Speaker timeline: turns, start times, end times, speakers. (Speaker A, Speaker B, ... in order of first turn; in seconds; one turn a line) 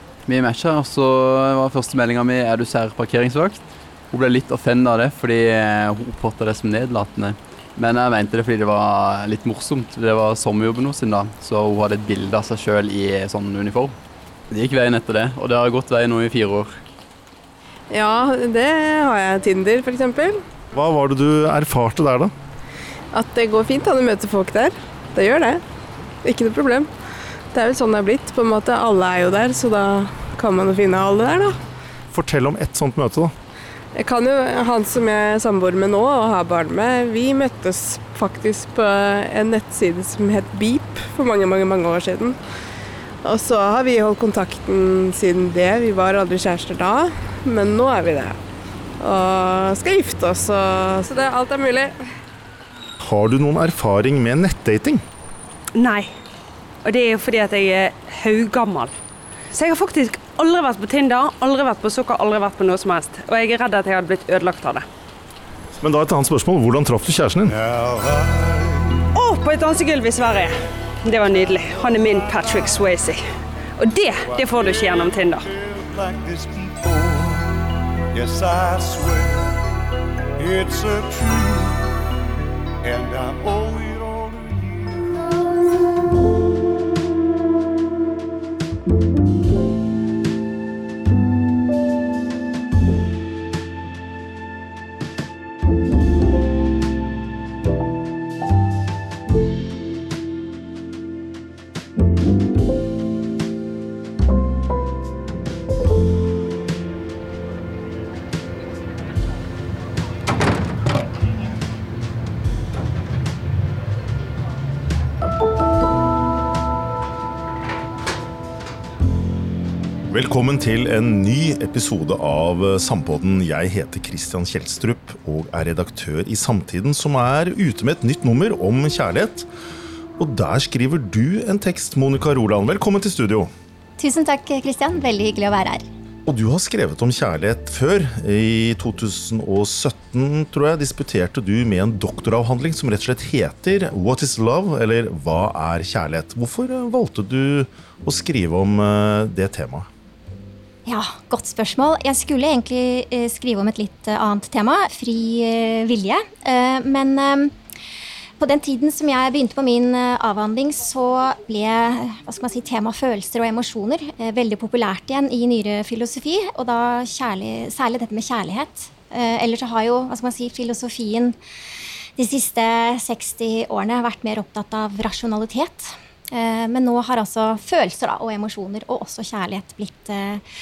Speaker A: 0.3-3.6
Speaker A: 4.1-13.9
Speaker A: 14.5-16.8
Speaker B: 17.9-20.4
Speaker C: 20.7-22.3
Speaker B: 23.1-25.6
Speaker B: 26.2-26.9
Speaker B: 27.5-31.6
Speaker C: 32.1-33.3
Speaker B: 33.9-42.4
Speaker B: 43.2-48.4
Speaker B: 49.0-52.0
Speaker C: 53.0-55.0
Speaker D: 55.8-56.1
Speaker D: 56.8-58.9
Speaker D: 59.5-64.9
Speaker C: 65.8-67.5
Speaker E: 67.5-69.1
Speaker D: 69.1-73.2
Speaker E: 72.1-72.8
Speaker D: 73.8-75.5
Speaker E: 74.3-79.5
Speaker E: 80.4-82.0
Speaker E: 82.8-85.6
Speaker C: 120.1-129.5
Speaker C: 130.2-133.5
Speaker F: 134.0-135.8
Speaker C: 136.2-149.9
Speaker F: 150.8-157.5
Speaker F: 158.4-171.3
Speaker F: 172.2-180.4